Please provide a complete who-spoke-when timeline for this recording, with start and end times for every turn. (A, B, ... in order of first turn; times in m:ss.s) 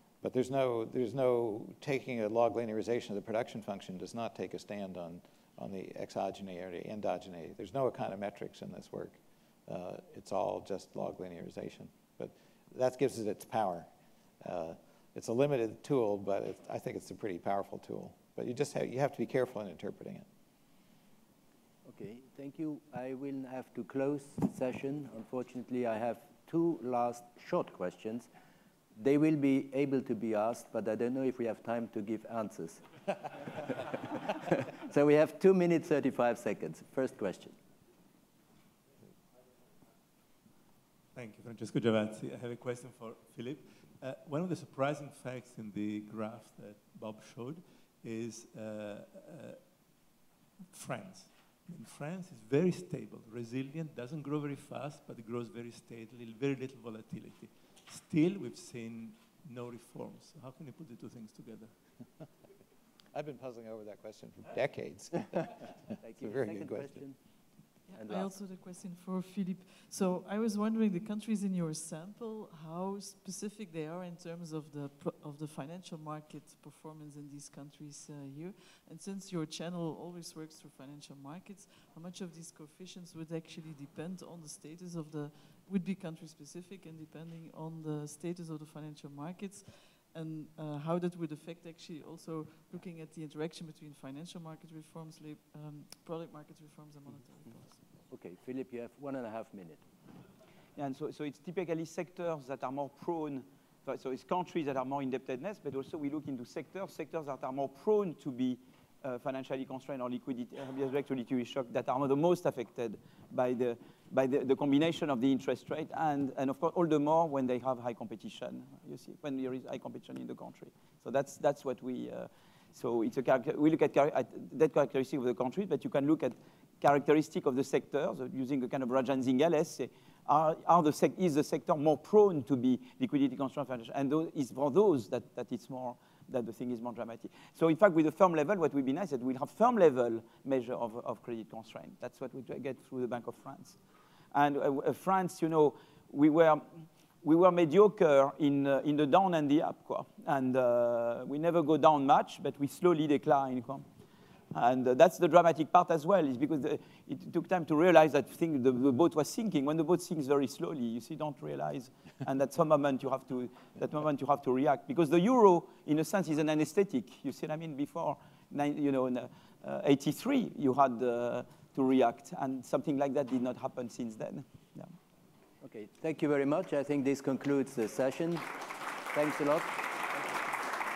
0:00.2-0:13.9 A
0:14.4-0:20.3 A
0:21.9-0:28.3 B
0:29.0-0:33.8 B
0:34.5-0:37.6 B
0:41.1-0:49.7 C
0:50.7-1:01.8 C
1:03.1-1:05.7 A
1:06.0-1:07.2 B
1:06.2-1:07.0 A
1:07.9-1:37.8 D
1:08.0-1:08.4 B
1:38.1-1:39.8 B
1:40.8-2:23.8 E
2:24.3-2:26.7 E
2:27.2-2:33.9 E
2:34.5-2:54.9 E
2:55.6-2:58.5 B
2:59.1-2:59.8 B